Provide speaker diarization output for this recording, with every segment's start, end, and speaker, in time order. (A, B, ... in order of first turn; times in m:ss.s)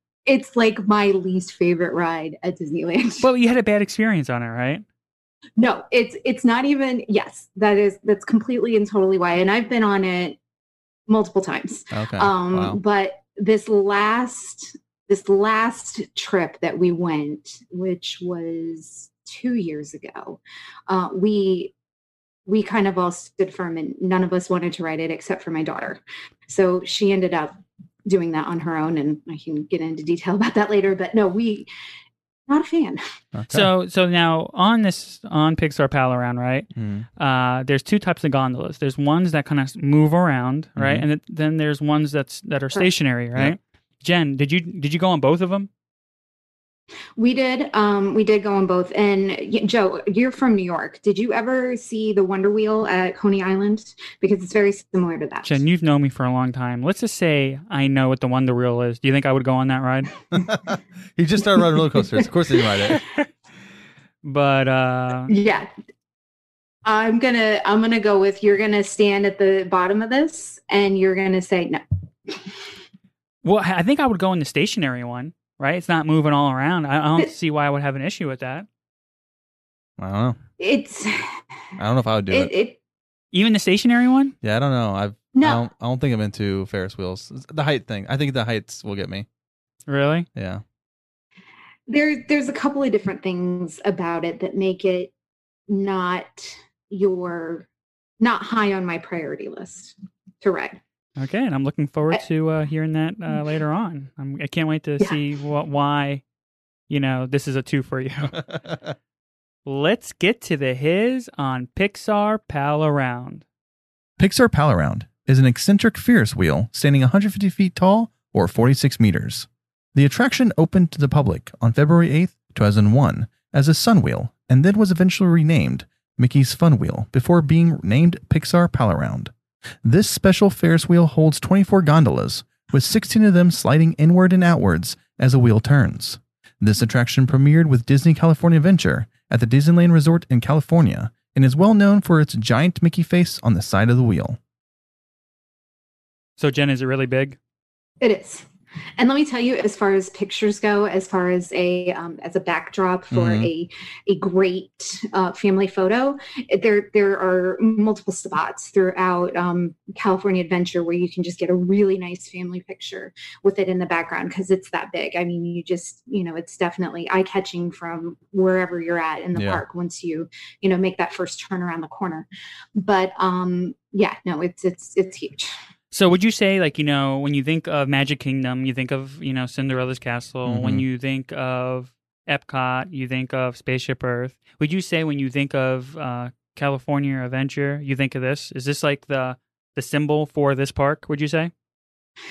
0:00.2-0:03.3 A
0:03.2-0:04.8 B
0:05.6-0:10.4 A
0:11.1-0:21.7 A
0:11.9-0:12.8 C
0:22.5-0:27.6 A
0:28.1-0:31.7 A
0:32.5-0:33.0 A
0:33.3-0:33.7 C
0:33.5-0:45.7 B
0:36.7-0:37.1 C
0:40.8-0:41.0 C
0:47.2-0:55.6 A
0:55.4-1:00.1 B
1:00.3-1:03.0 C
1:04.2-1:05.3 B
1:05.3-1:05.7 A
1:06.8-1:12.5 A
1:13.4-1:18.6 B
1:20.0-1:20.4 C
1:20.6-1:21.2 A
1:21.8-1:22.5 C
1:22.3-1:22.8 A
1:23.3-1:24.3 B
1:24.4-1:29.2 C
1:25.3-1:25.6 A
1:29.9-1:30.3 B
1:30.3-1:30.6 C
1:31.9-1:35.1 A
1:35.7-1:37.6 A
1:38.2-1:40.8 A
1:41.2-1:46.2 B
1:46.9-1:48.4 B
1:48.3-1:48.8 C
1:49.6-1:53.4 B
1:54.2-2:09.3 C
2:09.8-2:24.4 C
2:26.4-2:27.4 B
2:28.0-2:28.4 A
2:29.0-2:55.5 A
2:33.1-2:33.5 C
2:49.3-2:49.6 C
2:55.9-3:11.5 B
3:00.4-3:00.8 C